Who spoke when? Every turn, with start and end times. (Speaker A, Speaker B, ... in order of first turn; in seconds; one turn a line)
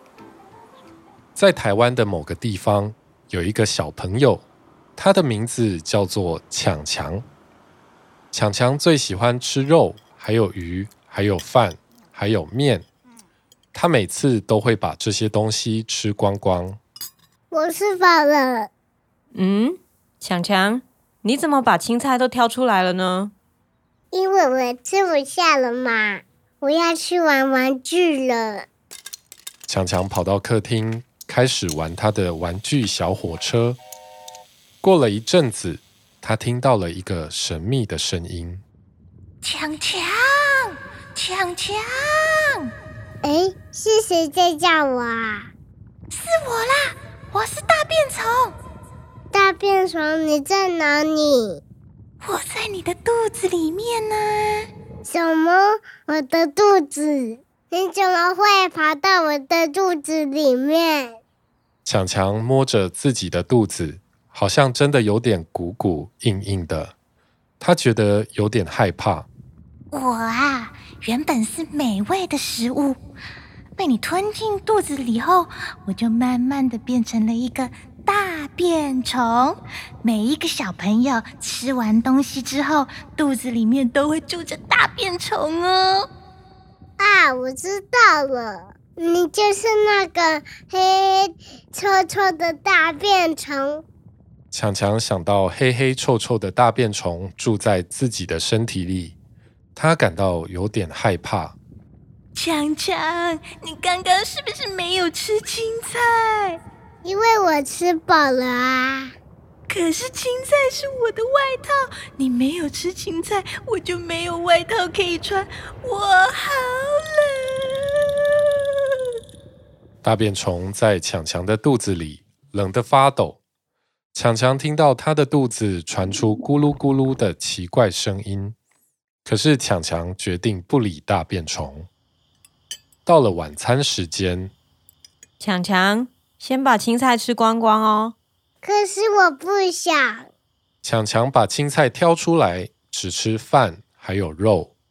Speaker A: 1.4-4.4
Speaker A: 5.0-7.2
Speaker A: 8.3-12.8
Speaker A: 13.7-16.8
Speaker B: 17.5-18.7
Speaker C: 19.3-23.3
Speaker B: 24.1-28.6
Speaker A: 29.7-33.8
Speaker A: 34.8-38.6
Speaker D: 39.4-42.7
Speaker B: 43.2-45.5
Speaker D: 46.1-48.5
Speaker B: 49.3-51.6
Speaker D: 52.2-54.7
Speaker B: 55.0-61.2
Speaker A: 61.8-66.9
Speaker A: 67.6-69.3
Speaker D: 69.9-73.0
Speaker D: 73.8-86.1
Speaker B: 87.0-93.8
Speaker A: 94.5-99.1
Speaker A: 99.7-101.6
Speaker D: 102.3-106.6
Speaker B: 107.0-109.1
Speaker D: 109.7-118.1
Speaker A: 120.0-123.4
Speaker A: 124.1-128.6
Speaker A: 129.2-131.9
Speaker A: 133.1-134.5
Speaker C: 135.4-138.1
Speaker B: 138.6-140.3
Speaker A: 140.8-144.7